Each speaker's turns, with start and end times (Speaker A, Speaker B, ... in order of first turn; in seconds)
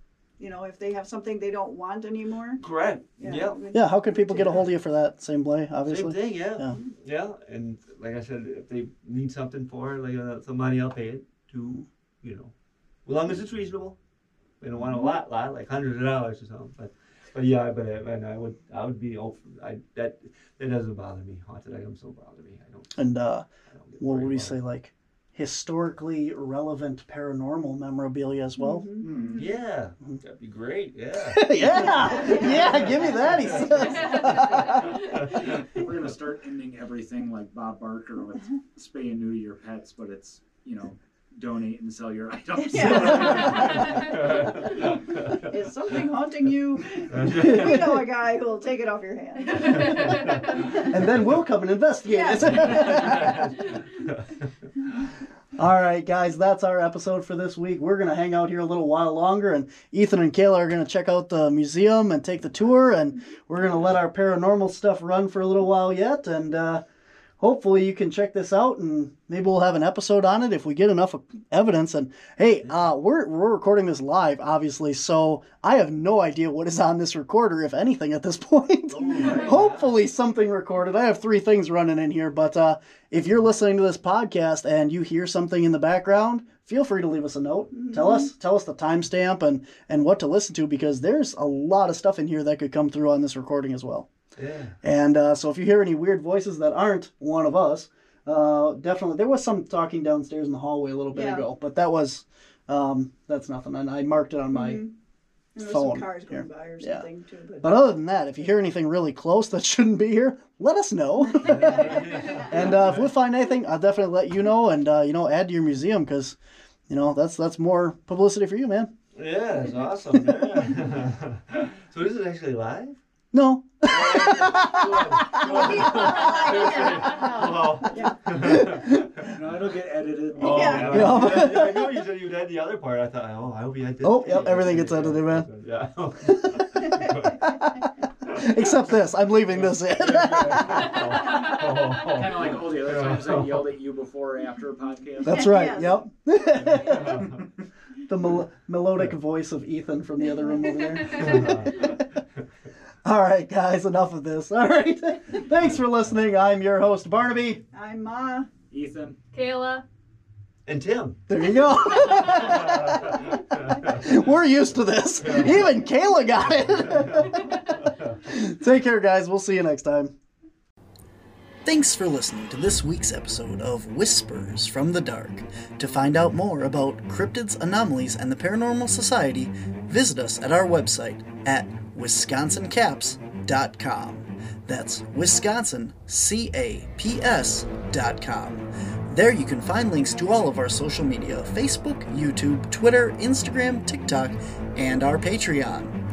Speaker A: 0.4-2.6, 3.2-4.6, 28.6-29.1, 31.7-35.4, 42.5-51.0, 52.1-53.5, 87.7-88.3, 101.1-101.5, 104.5-104.9, 105.5-107.8, 111.4-112.6, 125.3-128.2, 130.4-131.4, 145.3-146.0, 150.2-151.4, 157.7-158.5
Speaker B: 2.6-3.6, 4.3-4.6, 5.8-12.5, 13.0-14.0, 14.6-22.9, 23.7-24.6, 29.3-34.2, 34.9-35.6, 42.8-45.5, 47.1-48.1, 49.9-50.4, 52.4-54.5, 78.9-79.9, 94.3-94.8, 111.5-113.1, 119.1-123.0, 123.8-129.3, 130.3-137.5, 138.2-138.6, 140.1-143.6, 146.5-147.4, 151.1-152.0, 160.7-161.2, 162.3-164.1, 165.2-165.6, 166.9-167.2, 167.9-168.1
Speaker C: 3.7-6.7, 22.9-23.4, 24.0-28.9, 31.2-34.9, 47.4-47.7, 50.8-53.2, 55.5-66.8, 67.4-94.1, 94.8-104.8, 105.6-107.0, 107.6-116.4, 116.9-118.9, 123.3-126.0, 128.3-129.1, 130.9-131.9, 134.0-135.5, 138.3-140.9, 145.2-147.3, 148.1-152.0, 153.0-157.6, 161.3-163.2, 163.8-167.5, 168.2-170.1, 171.6-196.0
Speaker D: 29.0-29.4, 35.4-44.2, 129.2-131.2, 140.0-145.8, 147.3-147.6, 158.7-159.2
Speaker E: 33.7-35.1, 49.5-50.6, 141.2-141.5, 159.3-159.8